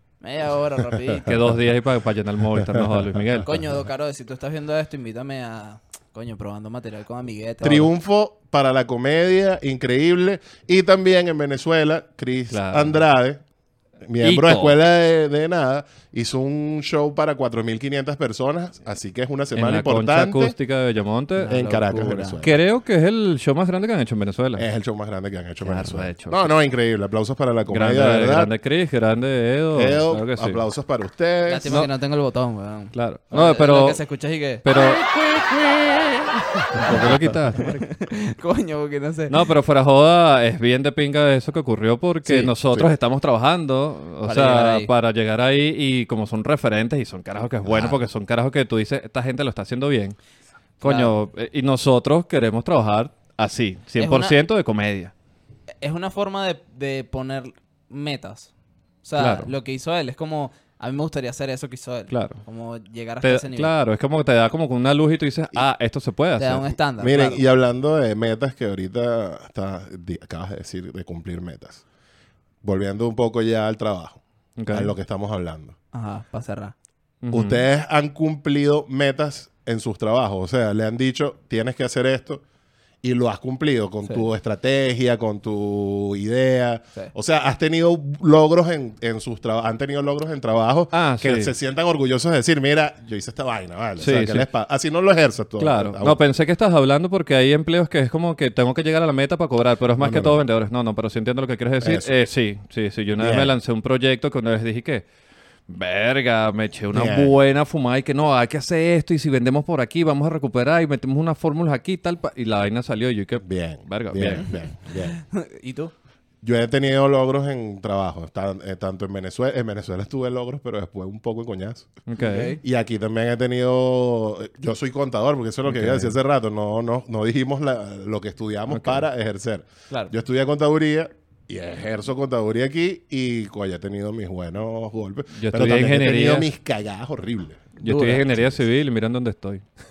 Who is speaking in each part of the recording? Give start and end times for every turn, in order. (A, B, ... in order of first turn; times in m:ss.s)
0:00.2-0:01.3 A
0:01.2-0:03.6 B
0:03.4-0:07.9 A
0:07.6-0:13.4 C
0:12.5-0:13.0 B
0:14.0-0:20.5 C
0:14.2-0:14.8 B
0:19.5-0:21.6 B
0:21.4-0:22.4 A
0:21.4-0:22.6 C
0:22.4-0:24.6 B
0:24.6-0:28.5 C
0:25.6-0:26.5 B
0:27.7-0:30.6 B
0:29.7-0:31.8 C
0:31.4-0:34.6 A
0:31.6-0:31.9 B
0:32.9-0:34.0 B
0:34.6-0:36.2 B
0:36.7-0:37.8 B
0:36.8-0:37.3 C
0:36.8-0:39.4 A
0:39.3-0:50.2 B
0:44.2-0:44.9 A
0:47.6-0:48.0 C
0:50.8-0:55.1 B
0:50.8-0:51.1 A
0:54.0-0:54.4 A
0:55.8-1:03.7 A
0:59.2-0:59.5 B
1:02.1-1:02.4 B
1:03.2-1:06.7 B
1:06.4-1:07.4 A
1:07.0-1:11.8 C
1:12.6-1:15.7 C
1:14.6-1:14.9 B
1:15.9-1:16.7 A
1:17.2-1:17.6 B
1:17.3-1:22.4 C
1:23.0-1:36.2 C
1:30.9-1:31.5 B
1:34.0-1:34.5 B
1:35.6-1:45.0 B
1:40.0-1:40.4 C
1:41.8-1:42.1 C
1:43.2-1:43.5 C
1:45.7-1:54.5 B
1:46.9-1:47.3 C
1:53.4-1:55.2 C
1:54.4-1:55.9 A
1:56.4-2:01.9 C
2:02.1-2:02.6 B
2:02.2-2:02.6 A
2:02.6-2:17.7 C
2:05.6-2:06.1 B
2:08.7-2:09.0 B
2:15.3-2:16.5 B
2:17.8-2:18.2 A
2:17.8-2:19.6 B